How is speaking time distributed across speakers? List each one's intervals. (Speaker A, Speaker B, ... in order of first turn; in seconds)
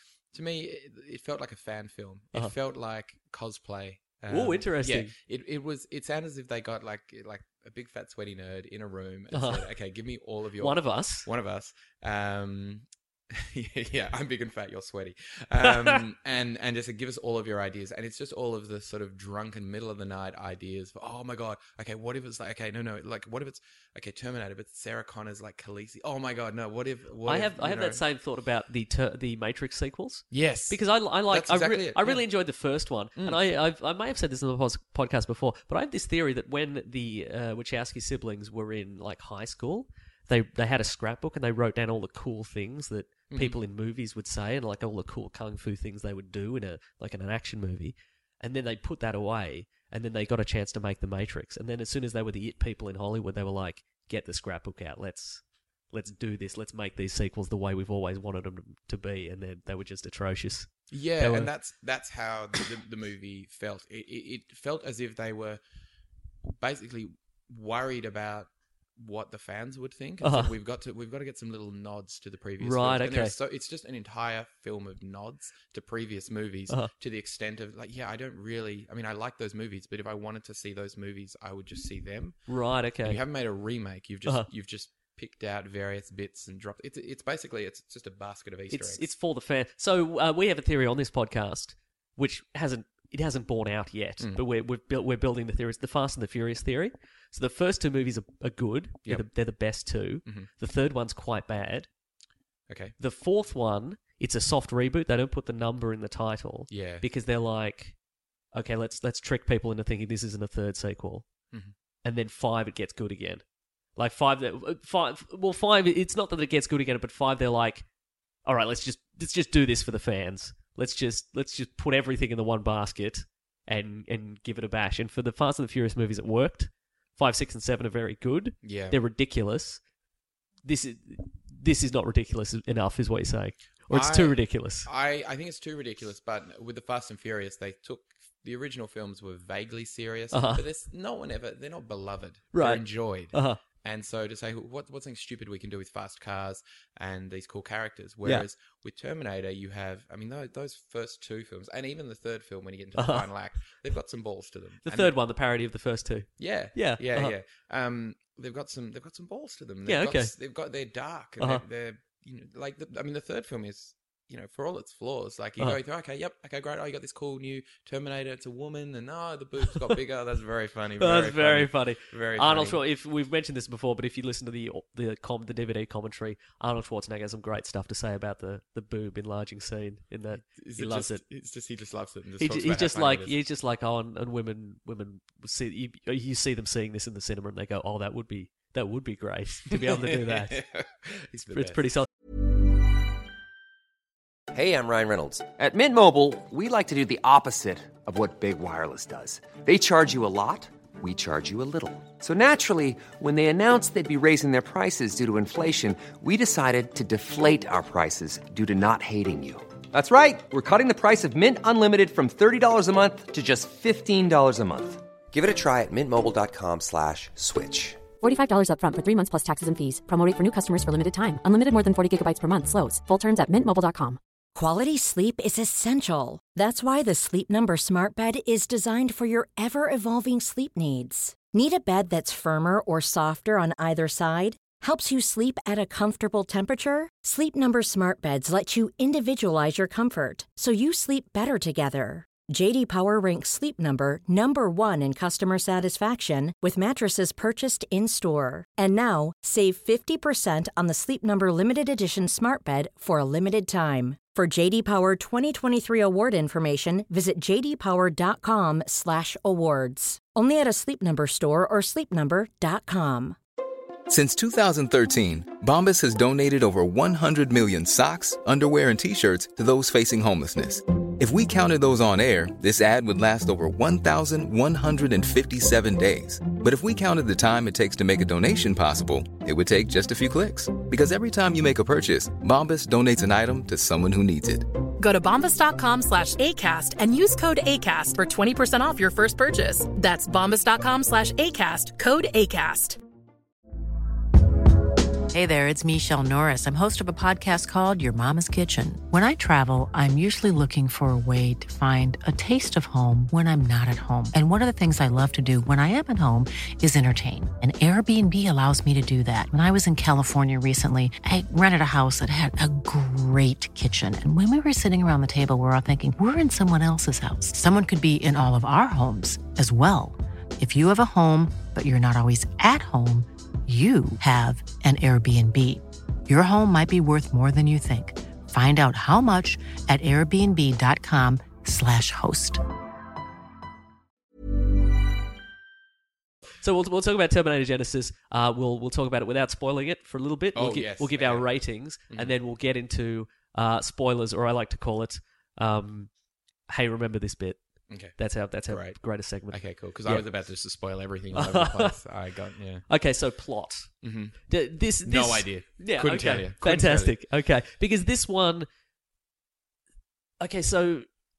Speaker A: 0.3-28.0, 30.3-32.2, 43.3-43.5, 60.9-65.6, 66.6-82.4, 83.0-89.1, 102.7-102.9, 106.7-107.0, 128.6-129.0, 133.9-155.1, 156.4-172.8, 180.3-183.3, 189.7-191.8, 340.5-341.5, 347.9-348.1, 348.7-349.0, 349.5-352.8, 354.0-354.3, 355.0-357.2
Speaker B: 4.3-5.1, 9.3-9.7, 10.6-11.3, 27.2-61.5, 70.2-70.5, 72.6-73.3, 82.5-83.2, 88.7-101.9, 103.0-108.0, 108.5-111.2, 112.0-113.4, 114.0-117.8, 118.5-129.8, 130.6-134.9, 140.3-140.6, 142.5-143.6, 153.0-153.2, 154.8-157.3, 159.8-160.3, 171.0-181.2, 182.4-190.6, 191.5-192.1, 336.6-346.1, 346.7-347.6, 348.1-350.2, 351.3-351.9, 352.9-353.9, 354.5-358.7, 360.4-361.1
Speaker C: 194.5-218.0
Speaker D: 218.2-224.2
Speaker E: 224.5-263.4
Speaker F: 264.1-284.6
Speaker G: 285.0-293.0
Speaker H: 295.3-332.6